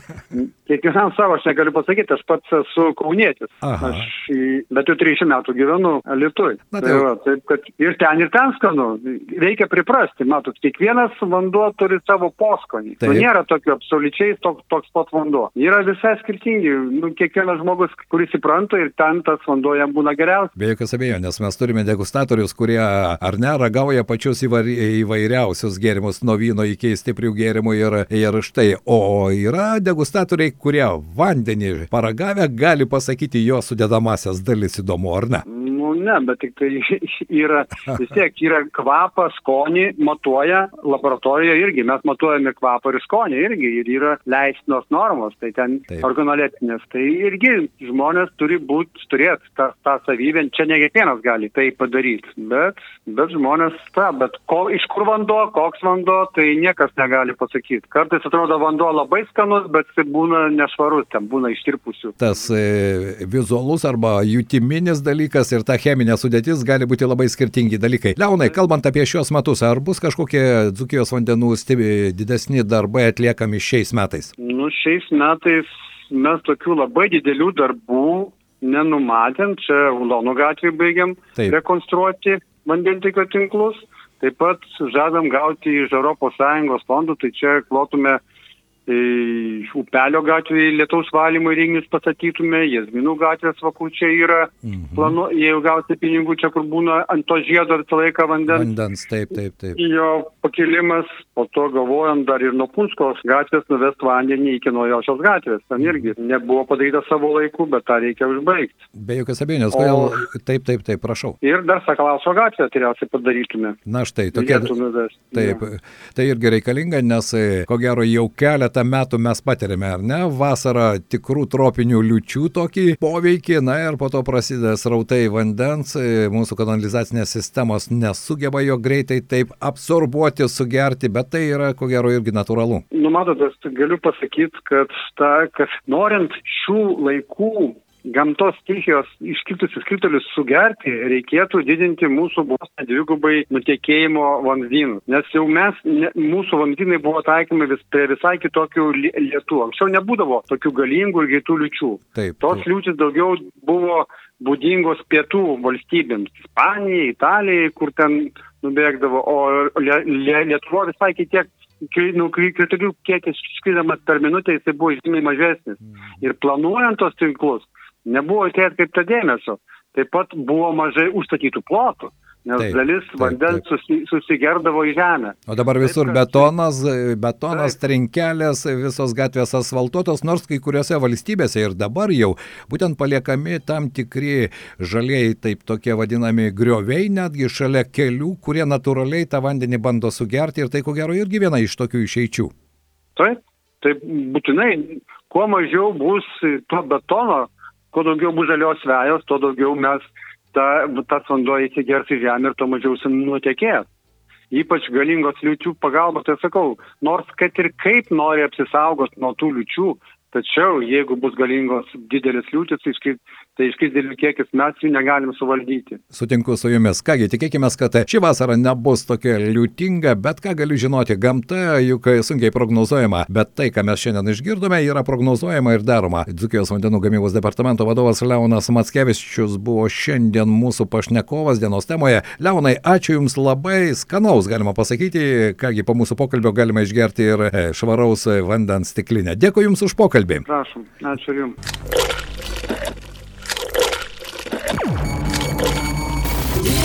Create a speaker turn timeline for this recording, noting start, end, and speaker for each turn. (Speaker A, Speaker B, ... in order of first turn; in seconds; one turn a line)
Speaker A: 0.3-20.5
Speaker B: 3.6-4.1
Speaker B: 6.7-7.0
Speaker B: 13.0-13.3
Speaker B: 20.6-35.4
Speaker A: 35.5-62.2
Speaker B: 62.2-74.3
Speaker A: 74.4-88.2
Speaker A: 88.9-98.7
Speaker B: 94.6-95.2
Speaker B: 98.5-99.8
Speaker A: 99.8-108.8
Speaker B: 105.8-106.0
Speaker B: 109.0-111.4
Speaker A: 109.7-110.2
Speaker A: 111.4-113.8
Speaker B: 113.8-114.7
Speaker A: 114.3-115.7
Speaker B: 115.3-132.8
Speaker A: 132.9-176.5
Speaker B: 152.1-152.6
Speaker B: 172.6-173.6
Speaker B: 175.5-192.5
Speaker A: 193.2-203.9
Speaker A: 204.5-216.0
Speaker B: 216.1-240.4
Speaker A: 240.4-241.6